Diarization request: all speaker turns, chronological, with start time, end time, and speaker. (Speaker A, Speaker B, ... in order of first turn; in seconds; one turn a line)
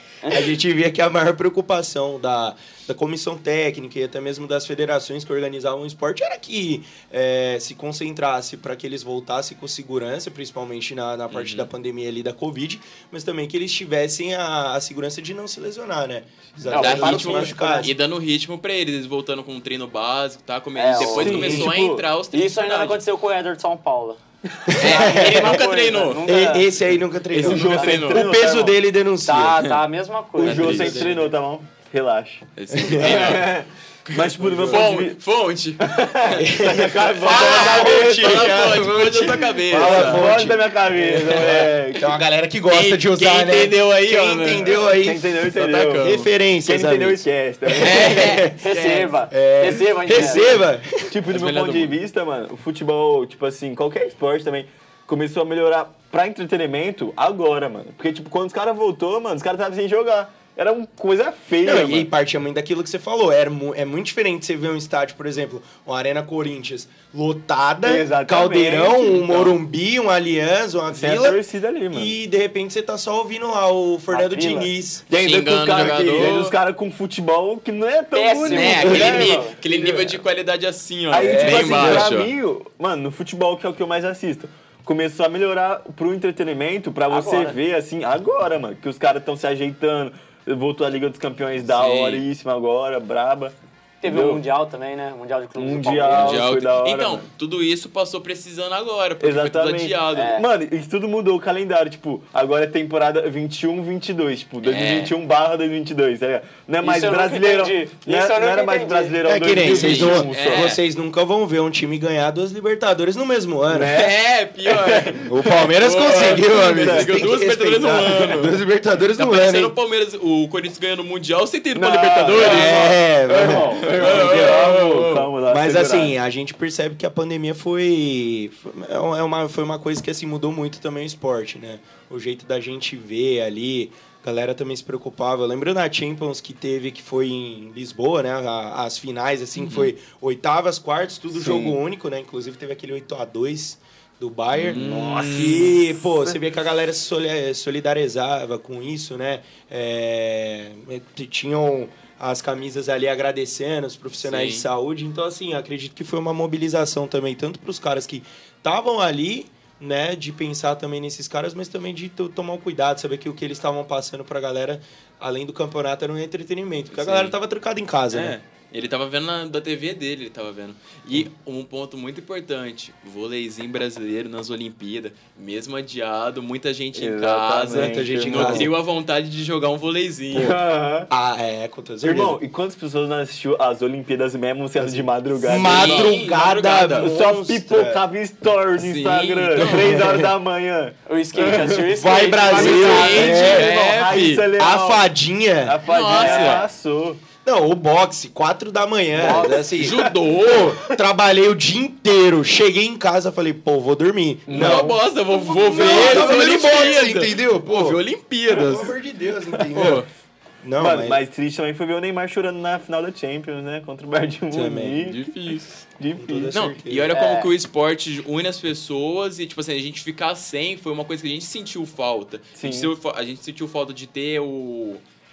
Speaker A: 0.2-0.5
Speaker B: 0.3-17.9
Speaker C: 11.3-11.7
Speaker A: 16.7-17.9
Speaker C: 16.7-23.0
Speaker A: 20.8-21.5
Speaker D: 21.0-22.1
Speaker B: 21.1-21.7
Speaker A: 22.3-26.7
Speaker B: 24.7-25.6
Speaker C: 24.8-26.3
Speaker B: 26.2-29.6
Speaker D: 27.3-28.8
Speaker C: 27.4-28.3
Speaker A: 29.2-30.8
Speaker D: 30.4-32.4
Speaker B: 30.4-31.3
Speaker C: 30.4-31.1
Speaker C: 32.6-33.5
Speaker B: 32.7-33.4
Speaker D: 33.0-35.2
Speaker C: 34.1-36.4
Speaker B: 34.4-34.9
Speaker D: 35.8-38.7
Speaker B: 36.3-45.2
Speaker C: 37.2-40.3
Speaker D: 39.7-42.1
Speaker C: 41.2-41.7
Speaker C: 42.7-44.8
Speaker D: 45.0-48.5
Speaker C: 45.4-46.3
Speaker B: 46.0-48.6
Speaker C: 47.7-49.1
Speaker A: 48.5-50.6
Speaker B: 49.3-51.1
Speaker D: 50.1-50.5
Speaker D: 51.1-62.1
Speaker C: 51.3-51.9
Speaker B: 61.6-75.0
Speaker D: 67.8-69.6
Speaker D: 70.9-72.1
Speaker A: 74.1-74.7
Speaker D: 75.1-80.2
Speaker C: 75.1-76.5
Speaker A: 78.1-79.5
Speaker C: 78.4-82.3
Speaker D: 81.1-94.4
Speaker B: 81.2-82.1
Speaker A: 87.1-87.6
Speaker C: 91.6-92.2
Speaker A: 94.0-96.5
Speaker D: 95.6-97.3
Speaker C: 96.1-100.4
Speaker D: 99.2-110.8
Speaker A: 100.1-100.4
Speaker C: 104.6-105.1
Speaker A: 106.8-109.2
Speaker B: 109.2-114.0
Speaker C: 109.6-110.8
Speaker D: 113.7-117.2
Speaker C: 113.9-115.2
Speaker B: 115.2-119.7
Speaker C: 115.8-118.6
Speaker C: 119.2-125.3
Speaker D: 121.7-126.2
Speaker B: 122.3-124.9
Speaker B: 125.5-168.3
Speaker C: 139.6-139.9
Speaker D: 141.3-141.8
Speaker C: 144.5-145.7
Speaker D: 144.7-146.4
Speaker C: 154.2-154.6
Speaker C: 166.9-167.4
Speaker C: 168.1-180.6
Speaker D: 176.9-178.7
Speaker B: 177.7-178.7
Speaker D: 180.3-181.1
Speaker B: 181.1-182.4
Speaker D: 182.0-186.2
Speaker B: 184.8-188.0
Speaker C: 185.4-187.1
Speaker D: 186.9-191.9
Speaker C: 188.8-190.0
Speaker B: 189.6-190.3
Speaker A: 191.1-193.3
Speaker B: 191.9-193.7
Speaker D: 192.5-195.1
Speaker C: 192.5-194.4
Speaker B: 194.6-196.5
Speaker D: 195.6-197.2
Speaker C: 195.8-196.7
Speaker A: 196.2-196.6
Speaker B: 197.4-205.0
Speaker D: 199.1-200.9
Speaker A: 199.2-199.6
Speaker C: 199.4-200.8
Speaker D: 204.5-205.0
Speaker C: 204.5-208.9
Speaker B: 205.5-208.0
Speaker D: 205.5-206.9
Speaker B: 208.5-210.0
Speaker D: 209.5-210.0
Speaker C: 209.7-210.1
Speaker B: 210.6-211.2
Speaker D: 210.8-216.8
Speaker B: 214.5-215.1
Speaker C: 215.0-215.7
Speaker B: 216.2-217.1
Speaker C: 216.5-225.0
Speaker A: 217.1-217.5
Speaker D: 222.6-222.9